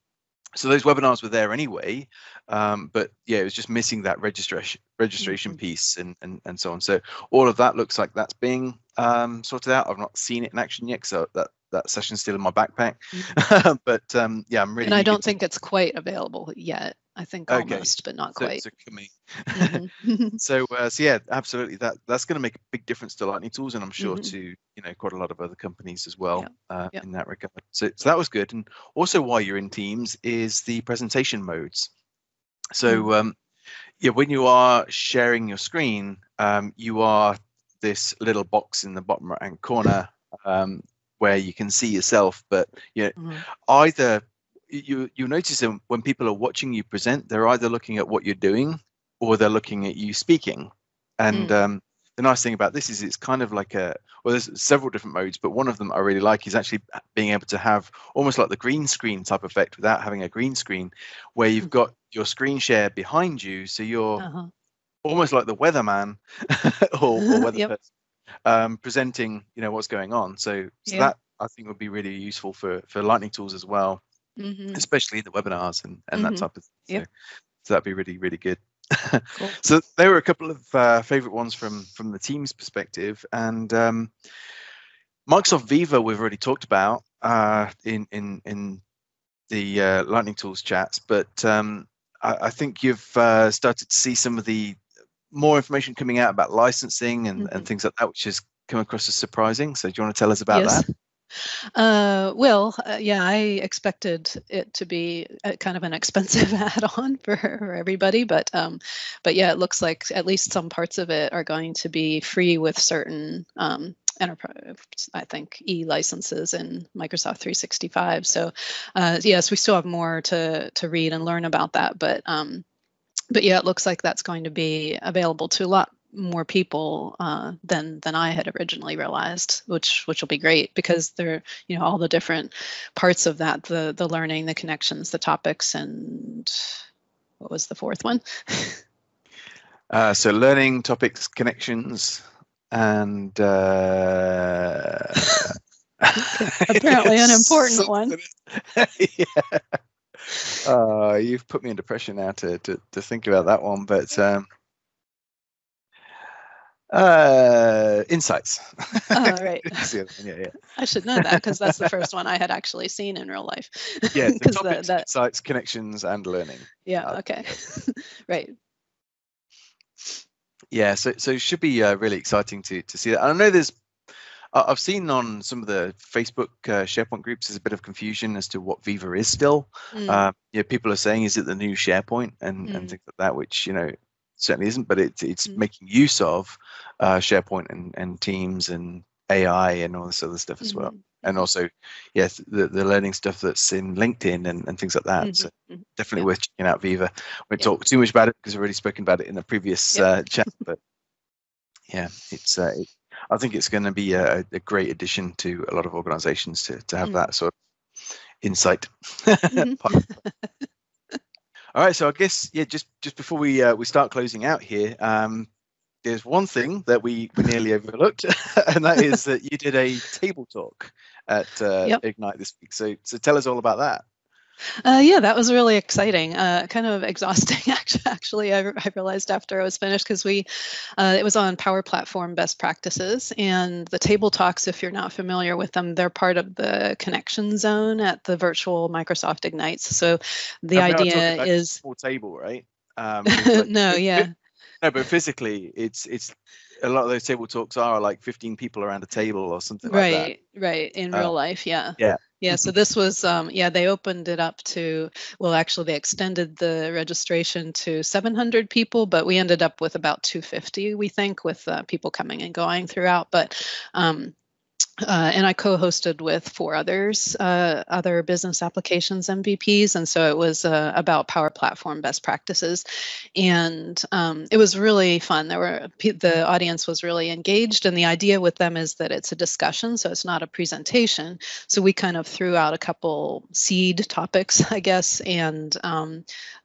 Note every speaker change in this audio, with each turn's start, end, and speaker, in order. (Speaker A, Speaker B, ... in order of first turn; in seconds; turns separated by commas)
Speaker A: 0.6-15.4, Speaker B: 5.2-5.6, Speaker B: 14.8-18.6, Speaker A: 17.5-19.8, Speaker B: 19.6-20.4, Speaker A: 20.4-31.9, Speaker B: 24.0-24.3, Speaker B: 26.4-27.0, Speaker A: 32.8-33.4, Speaker A: 34.0-64.3, Speaker B: 43.2-43.4, Speaker B: 64.2-64.5, Speaker A: 65.0-67.8, Speaker B: 67.2-67.7, Speaker A: 68.5-74.0, Speaker B: 70.9-71.1, Speaker B: 74.4-74.8, Speaker A: 74.7-77.1, Speaker B: 76.2-77.0, Speaker A: 77.6-84.1, Speaker A: 85.3-88.8, Speaker A: 89.5-94.8, Speaker A: 95.3-100.8, Speaker B: 97.4-97.7, Speaker B: 100.5-100.8, Speaker B: 101.8-122.6, Speaker B: 123.3-136.7, Speaker B: 137.4-138.8, Speaker A: 139.9-154.4, Speaker B: 146.2-148.2, Speaker A: 156.9-160.6, Speaker B: 159.1-159.9, Speaker B: 160.7-165.1, Speaker A: 164.1-167.2, Speaker B: 166.9-168.5, Speaker A: 170.7-173.8, Speaker A: 174.5-200.8, Speaker B: 179.9-180.3, Speaker B: 182.7-183.0, Speaker B: 190.6-191.5, Speaker B: 195.2-196.3, Speaker A: 201.9-207.5, Speaker A: 208.4-210.0, Speaker B: 209.5-210.5, Speaker A: 211.8-215.5, Speaker A: 216.1-224.0, Speaker B: 224.8-241.8, Speaker A: 240.8-250.3, Speaker B: 243.3-244.3, Speaker B: 249.9-264.3, Speaker A: 252.0-252.7, Speaker B: 265.0-286.2